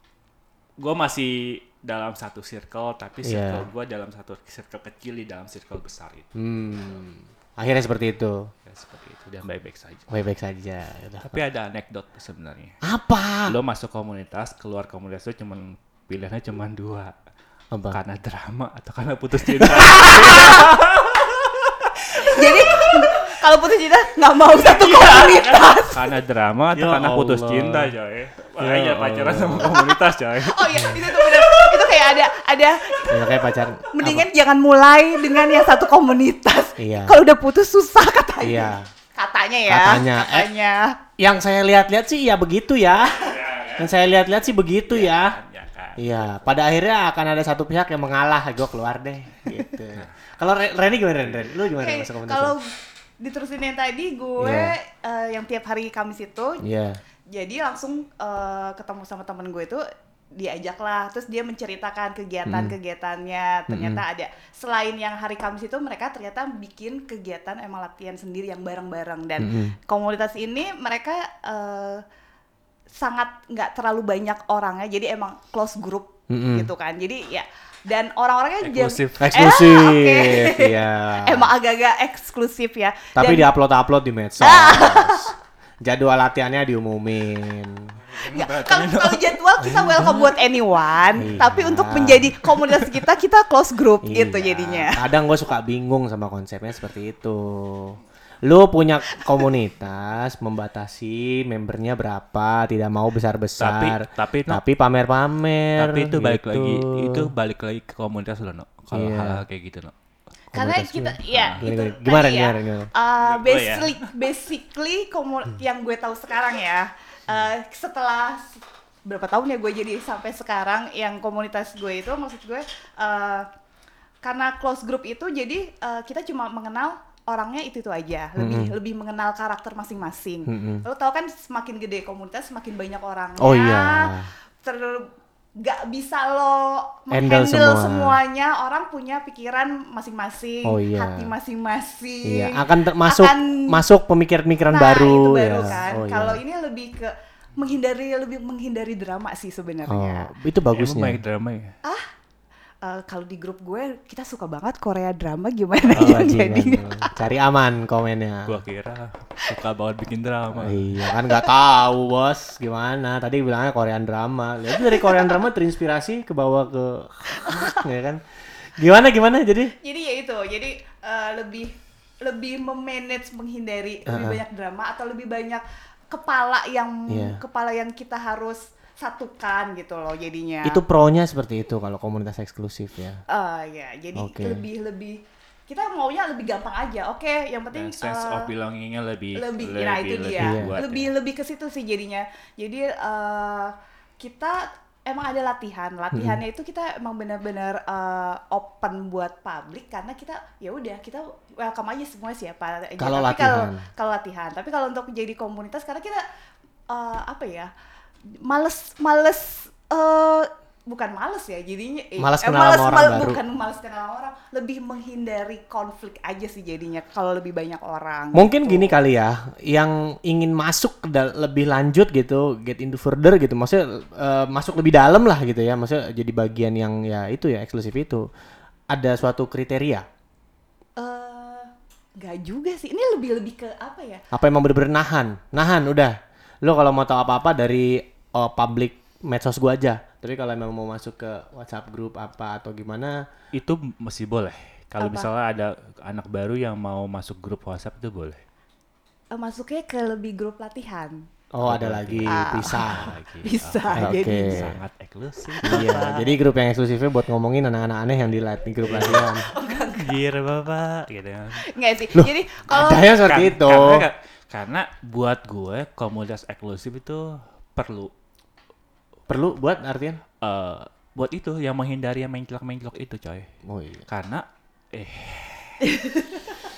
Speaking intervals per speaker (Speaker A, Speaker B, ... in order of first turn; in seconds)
Speaker A: 0.8-6.3, 8.7-10.1, 11.2-12.8, 13.5-17.1, 17.9-23.1, 24.5-31.5, 43.1-43.9, 44.9-46.4, 78.6-79.5, 88.1-90.2, 103.6-104.6, 105.8-109.9, 111.3-111.6, 113.2-114.1, 150.7-151.7, 158.5-160.9, 187.7-191.1, 243.5-248.4, 251.7-256.4, 258.9-261.7, 262.9-268.1, 270.4-273.5, 274.1-275.9
Speaker B: 3.2-3.7, 6.3-8.5, 10.1-11.4, 12.8-13.6, 17.7-18.0, 19.6-20.6, 26.7-27.9, 28.6-29.8, 33.1-34.3, 36.8-37.2, 38.4-38.9, 39.7-40.5, 41.2-45.4, 46.0-52.6, 54.4-54.7, 56.6-57.0, 62.5-62.7, 63.7-64.0, 69.4-69.8, 76.3-76.7, 79.2-81.5, 83.2-85.3, 85.8-88.0, 89.6-90.2, 91.2-92.4, 94.0-107.3, 108.9-109.4, 110.5-112.9, 128.4-128.7, 130.5-130.8, 133.4-134.3, 137.1-138.2, 140.7-141.3, 142.2-146.4, 149.9-151.2, 155.9-158.6, 160.5-168.2, 168.8-169.7, 174.1-174.4, 177.1-177.4, 180.7-183.2, 184.2-184.7, 190.4-190.8, 196.1-196.4, 203.0-203.8, 212.2-213.4, 218.3-228.3, 228.9-230.1, 234.3-243.2, 251.5-253.2, 253.9-254.8, 255.6-259.5, 262.1-264.1, 269.3-270.2, 273.6-274.1
Speaker C: 22.2-26.1, 29.6-33.3, 33.9-41.0, 51.8-56.6, 57.3-59.8, 60.4-72.0, 73.0-83.5, 84.4-85.3, 88.2-95.0, 110.5-123.5, 124.2-134.1, 134.6-143.8, 144.7-150.3, 152.8-157.2, 164.9-165.2, 169.8-180.8, 183.3-188.5, 189.4-206.2, 206.9-207.7, 208.4-218.9, 231.0-234.2, 245.0-245.3, 249.3-251.2, 252.3-254.7, 255.6-256.0, 258.9-260.2, 261.7-263.1, 275.9-276.2